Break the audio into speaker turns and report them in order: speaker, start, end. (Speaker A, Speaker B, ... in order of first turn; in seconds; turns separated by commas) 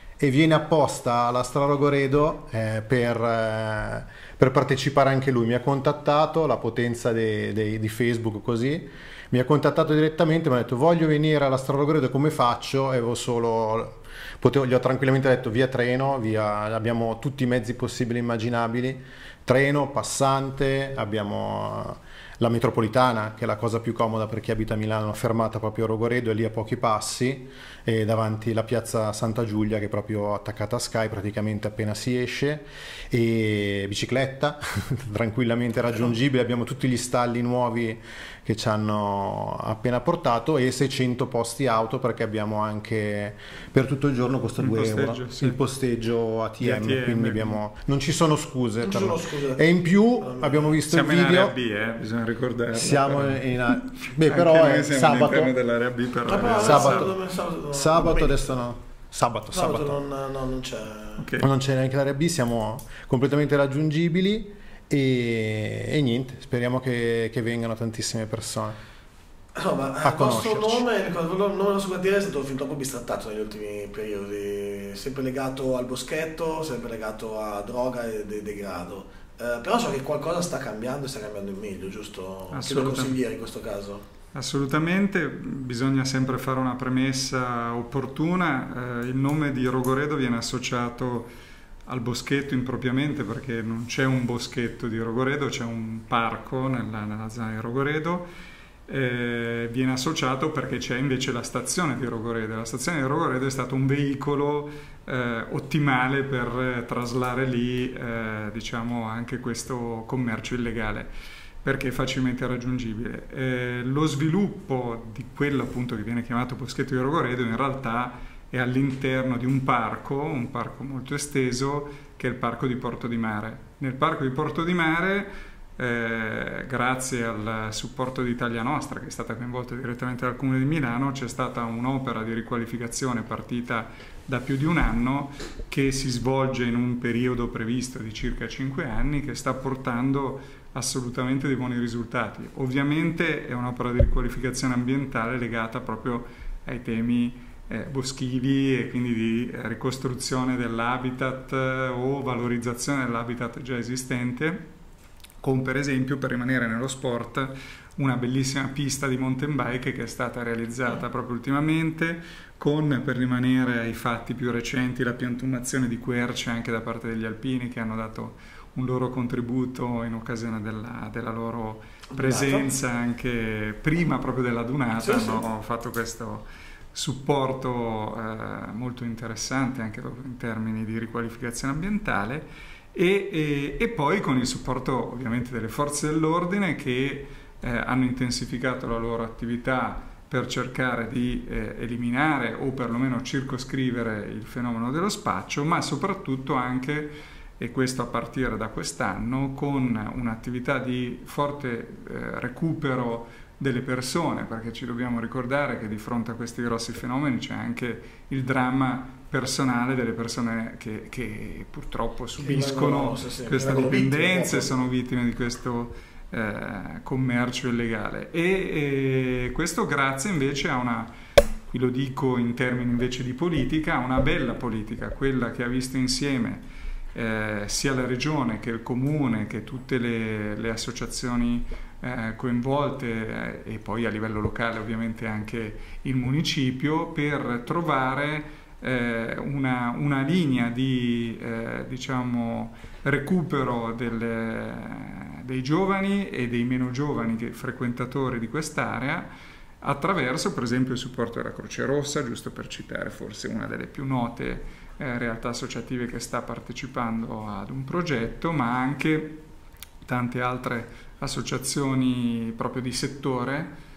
Speaker A: 0.2-51.5, Speaker B: 44.6-45.6, Speaker B: 46.6-47.6, Speaker C: 48.8-49.6, Speaker C: 50.2-50.8, Speaker B: 50.9-57.1, Speaker A: 52.7-55.5, Speaker C: 56.3-58.6, Speaker A: 56.5-57.2, Speaker A: 57.7-60.0, Speaker C: 59.5-61.3, Speaker B: 61.2-61.5, Speaker A: 61.4-68.8, Speaker C: 69.5-84.0, Speaker A: 70.0-70.8, Speaker B: 82.5-83.2, Speaker B: 84.3-91.3, Speaker B: 91.9-98.3, Speaker B: 98.9-111.1, Speaker B: 111.6-154.7, Speaker B: 155.4-221.1, Speaker C: 172.1-172.7, Speaker C: 174.9-175.4, Speaker C: 212.4-214.7, Speaker B: 221.7-249.3, Speaker B: 249.8-259.4, Speaker B: 260.1-263.7